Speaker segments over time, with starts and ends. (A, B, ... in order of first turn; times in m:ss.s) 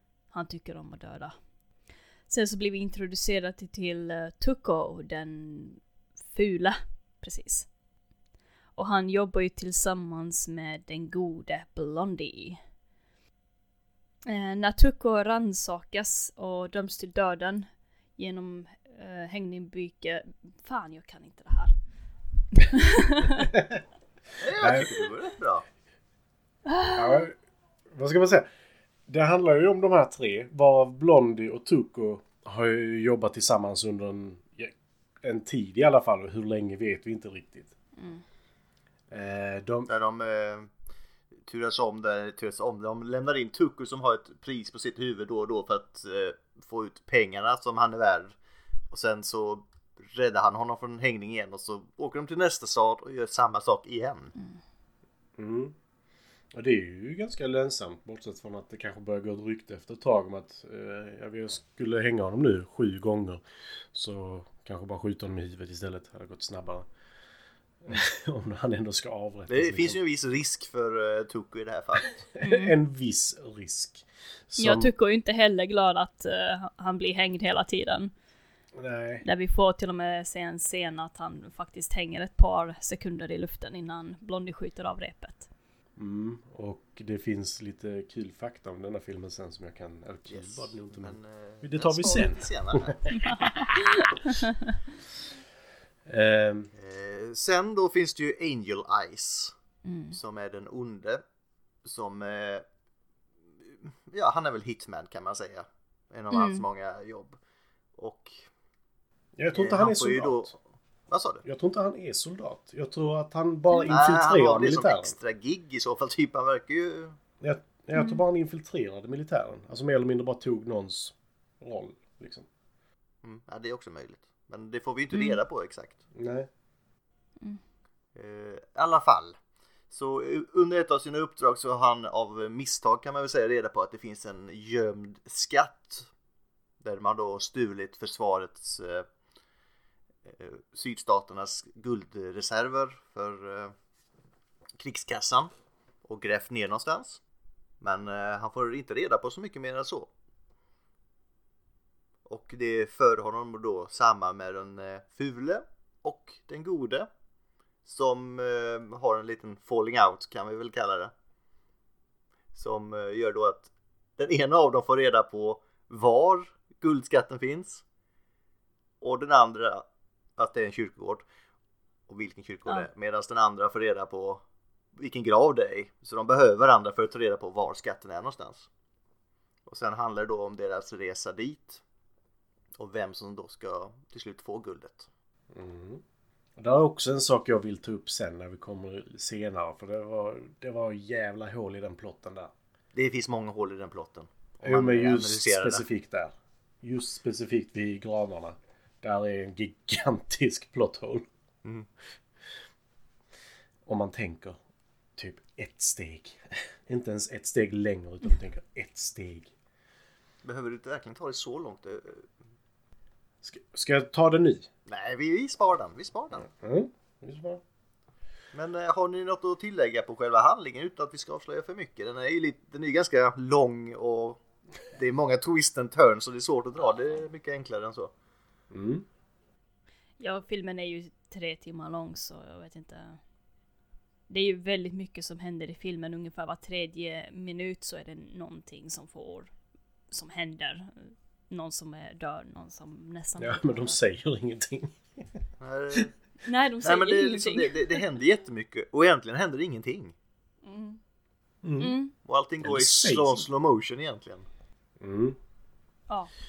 0:00.3-0:01.4 A
0:02.3-0:07.7 A
0:08.8-0:12.6 A
0:14.3-0:21.8 A
0:22.6-0:23.5 A
0:23.5-0:23.8 B
0:24.4-0:25.6 C
0:24.6-0:24.9 B
0:26.7-0:27.3 A
0:27.0-0:27.4 B
0:27.9-0:28.5 B
0:29.1-0:37.7 B
0:38.0-0:38.2 A
0:39.1-0:39.9 B
0:39.9-0:40.7 C
0:41.5-0:48.4 C
0:48.9-0:54.3 C
0:55.4-0:55.8 B
0:56.5-1:06.9 B
1:07.8-1:10.0 B
1:09.5-1:12.3 C
1:12.3-1:14.9 B
1:12.4-1:12.8 A
1:14.6-1:18.1 A
1:18.7-1:19.2 B
1:19.2-1:25.5 A
1:26.0-1:33.9 B
1:30.3-1:33.1 C
1:33.2-1:34.8 A
1:36.1-1:36.7 B
1:36.8-1:39.5 C
1:39.8-1:40.2 A
1:40.1-1:41.2 C
1:41.8-1:42.6 C
1:43.7-1:47.4 C
1:46.3-1:46.6 A
1:48.0-1:48.5 C
1:49.4-1:50.5 B
1:49.5-1:50.6 C
1:51.1-1:51.4 C
1:51.4-1:55.1 B
1:53.8-1:57.2 C
1:57.4-2:02.5 B
1:58.0-1:58.2 A
2:03.2-2:06.0 C
2:05.1-2:05.4 A
2:06.2-2:06.5 B
2:08.2-2:09.4 C
2:09.9-2:16.1 C
2:16.8-2:19.1 C
2:20.3-2:23.7 C
2:24.8-2:25.5 C
2:26.0-2:27.2 C
2:27.8-2:30.1 C
2:32.3-2:37.1 C
2:37.8-2:41.1 C
2:42.6-2:47.8 C
2:49.0-2:49.8 C
2:50.4-2:51.2 C
2:52.1-2:54.4 C
2:55.0-2:58.7 C
2:59.7-3:01.8 C
3:02.8-3:05.1 C
3:05.5-3:06.0 B
3:06.6-3:12.5 B
3:12.9-3:15.9 C
3:14.6-3:21.3 B
3:23.9-3:24.6 B
3:25.2-3:29.5 B
3:30.4-3:32.3 C
3:33.4-3:34.7 B
3:34.9-3:36.5 C
3:36.4-3:37.6 B
3:38.5-3:44.4 C
3:44.9-3:48.1 C
3:48.7-3:49.1 B
3:50.2-3:53.2 A
3:54.3-3:59.5 A
4:00.1-4:04.0 A
4:03.4-4:05.4 B
4:05.6-4:06.1 C
4:06.4-4:08.0 A
4:06.8-4:10.1 C
4:10.6-4:11.0 A
4:11.6-4:12.0 B
4:11.8-4:12.1 A
4:12.2-4:14.5 C
4:12.6-4:13.5 B
4:15.0-4:15.4 B